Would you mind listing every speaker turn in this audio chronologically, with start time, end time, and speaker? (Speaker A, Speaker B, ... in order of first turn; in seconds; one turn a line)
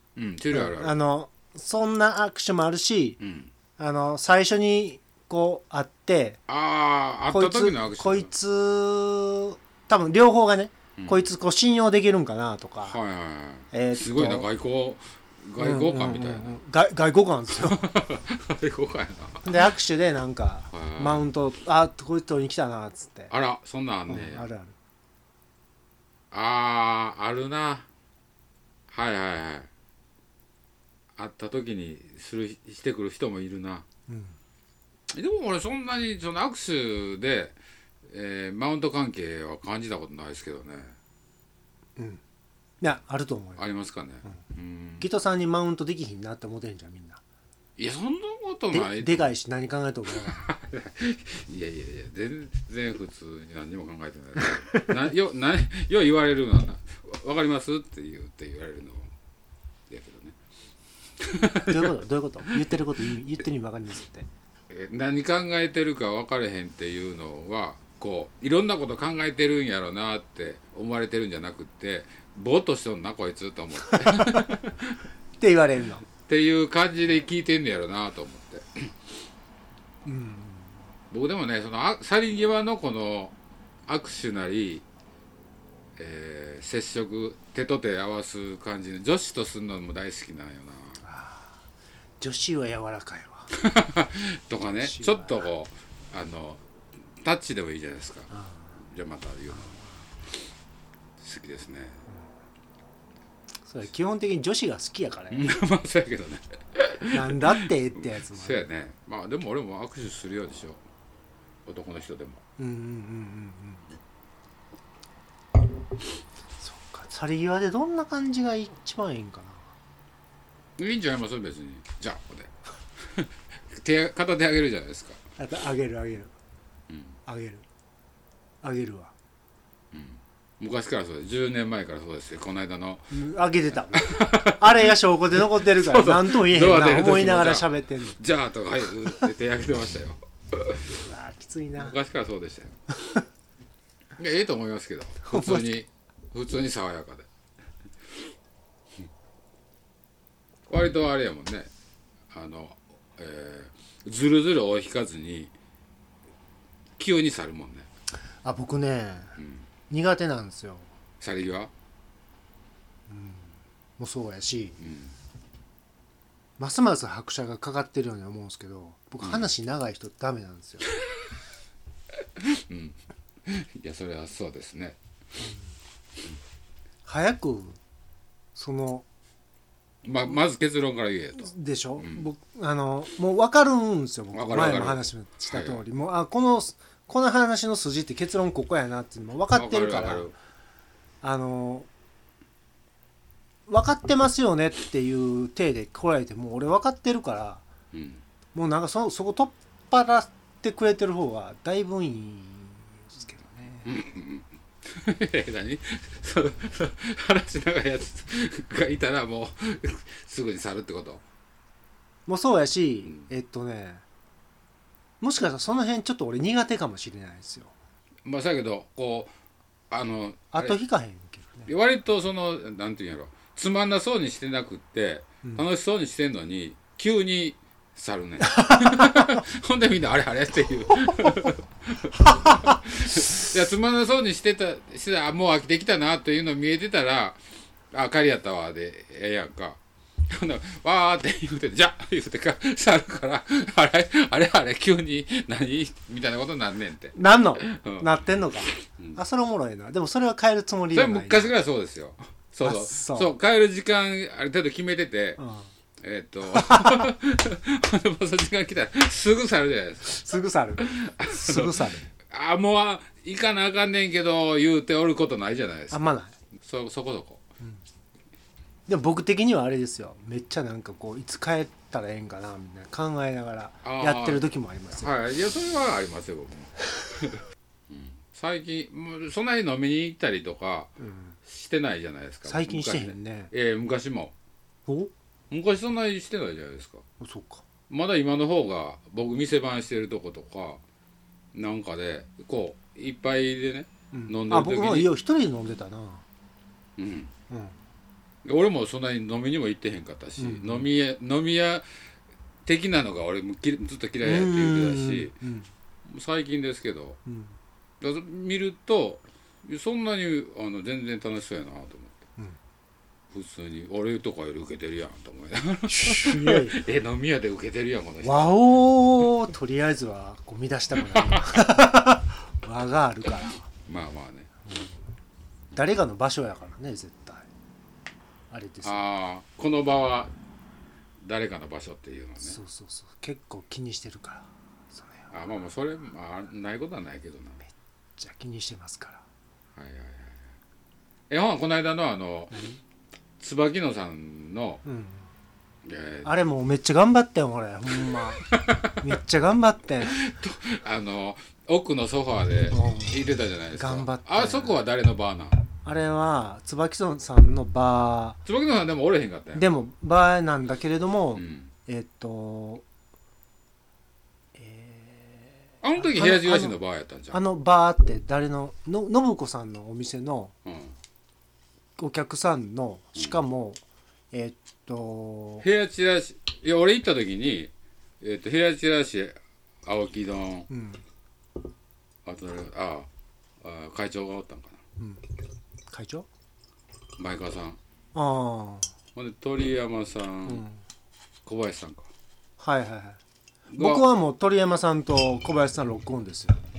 Speaker A: 0.2-1.0
Speaker B: 0.5-3.2
Speaker A: 3.2-3.5
Speaker B: 3.8-6.4
Speaker A: 6.5-8.3
Speaker B: 7.3-13.0
Speaker A: 11.0-11.3
Speaker A: 12.8-16.6
Speaker B: 13.7-14.5
Speaker B: 15.6-17.9
Speaker A: 17.6-19.5
Speaker B: 19.4-23.3
Speaker A: 20.7-21.3
Speaker A: 23.3-24.5
Speaker B: 24.1-24.8
Speaker A: 26.3-27.9
Speaker A: 28.9-29.7
Speaker A: 31.2-33.9
Speaker B: 34.1-34.4
Speaker A: 35.1-41.0
Speaker B: 42.8-43.6
Speaker A: 43.6-45.1
Speaker B: 45.0-47.2
Speaker A: 47.8-49.3
Speaker B: 48.7-50.5
Speaker A: 50.1-59.1
Speaker B: 54.4-54.9
Speaker A: 59.9-60.4
Speaker A: 61.2-62.0
Speaker B: 61.6-64.3
Speaker A: 64.7-75.0
Speaker B: 73.8-74.6
Speaker B: 75.4-76.0
Speaker A: 76.2-79.1
Speaker B: 80.0-80.8
Speaker A: 81.1-83.3
Speaker A: 83.9-84.8
Speaker A: 86.0-91.0
Speaker B: 91.0-91.6
Speaker B: 92.2-93.5
Speaker A: 93.5-96.6
Speaker B: 94.8-95.5
Speaker A: 97.2-99.8
Speaker B: 98.3-98.7
Speaker B: 99.7-100.0
Speaker A: 101.2-102.0
Speaker B: 103.7-105.5
Speaker A: 105.3-110.8
Speaker B: 107.1-108.6
Speaker A: 111.7-112.4
Speaker B: 112.6-113.8
Speaker B: 116.6-119.7
Speaker A: 120.8-125.2
Speaker B: 125.4-126.3
Speaker A: 126.9-127.2
Speaker B: 127.3-127.7
Speaker B: 128.6-129.1
Speaker A: 129.9-133.1
Speaker B: 133.1-138.2
Speaker A: 133.9-141.0
Speaker B: 141.0-142.0
Speaker A: 141.8-142.8
Speaker A: 144.2-147.3
Speaker B: 145.2-145.7
Speaker A: 150.7-151.7
Speaker A: 152.3-155.5
Speaker A: 157.0-157.9
Speaker B: 158.4-159.4
Speaker A: 159.4-159.7
Speaker B: 159.9-160.9
Speaker A: 161.2-161.7
Speaker B: 163.1-164.8
Speaker A: 164.8-165.2
Speaker B: 166.6-170.9
Speaker A: 169.2-169.5
Speaker A: 172.4-175.0
Speaker B: 177.1-177.8
Speaker B: 178.6-179.1
Speaker A: 180.0-182.2
Speaker B: 181.4-190.3
Speaker A: 184.3-185.8
Speaker A: 189.5-190.3
Speaker B: 191.2-191.9
Speaker B: 193.7-197.6
Speaker A: 197.9-198.2
Speaker B: 198.6-203.9
Speaker A: 203.8-211.2
Speaker B: 212.3-214.0
Speaker B: 215.2-217.7
Speaker A: 218.2-219.3
Speaker A: 219.9-220.8
Speaker B: 220.5-221.7
Speaker A: 221.7-248.1
Speaker B: 228.4-229.4
Speaker B: 247.2-251.5
Speaker A: 248.7-249.2
Speaker A: 250.9-255.4
Speaker B: 252.6-253.3
Speaker B: 255.4-255.7
Speaker A: 256.0-266.0
Speaker B: 256.5-257.1
Speaker B: 260.1-262.1
Speaker B: 265.9-266.4
Speaker A: 266.6-267.4
Speaker B: 268.9-275.1
Speaker A: 273.8-284.3
Speaker B: 281.0-281.4
Speaker B: 282.5-283.5
Speaker B: 284.9-285.1
Speaker A: 285.5-287.1
Speaker B: 287.2-287.6
Speaker A: 287.9-290.8
Speaker A: 291.5-295.1
Speaker B: 294.1-296.2
Speaker A: 297.0-297.3
Speaker B: 297.5-297.8
Speaker A: 298.4-301.9
Speaker B: 300.4-300.9
Speaker A: 302.6-305.3
Speaker B: 304.2-305.7
Speaker A: 306.1-307.2
Speaker B: 307.3-307.6
Speaker A: 308.0-312.2
Speaker A: 313.3-318.6
Speaker B: 315.9-316.8
Speaker B: 318.2-323.7
Speaker A: 320.9-321.8
Speaker A: 323.9-324.5
Speaker B: 325.7-327.5
Speaker B: 328.5-329.0
Speaker A: 328.8-330.3
Speaker A: 331.2-332.6
Speaker B: 332.4-335.3
Speaker A: 335.3-337.6
Speaker B: 338.2-339.2
Speaker A: 339.8-340.5
Speaker A: 341.3-342.6
Speaker B: 342.5-342.8
Speaker A: 343.4-344.8
Speaker B: 344.9-345.3
Speaker A: 345.8-346.3
Speaker B: 346.2-350.2
Speaker A: 348.1-349.0
Speaker A: 350.1-355.6
Speaker B: 352.7-353.2
Speaker B: 353.7-354.8
Speaker B: 355.9-358.4
Speaker A: 358.4-359.7
Speaker B: 359.6-362.8
Speaker A: 361.4-361.7
Speaker B: 364.6-366.8
Speaker A: 365.8-367.4
Speaker B: 367.3-370.5
Speaker A: 370.6-370.9
Speaker B: 372.0-373.8
Speaker B: 374.3-375.7
Speaker A: 375.6-380.7
Speaker B: 380.7-381.0
Speaker A: 382.2-383.1
Speaker A: 383.6-384.8
Speaker B: 385.9-386.3
Speaker A: 387.2-387.8
Speaker B: 388.1-388.9
Speaker A: 389.1-390.7
Speaker B: 390.5-390.8
Speaker A: 391.4-392.1
Speaker B: 392.6-393.2
Speaker A: 393.7-394.1
Speaker B: 393.8-396.6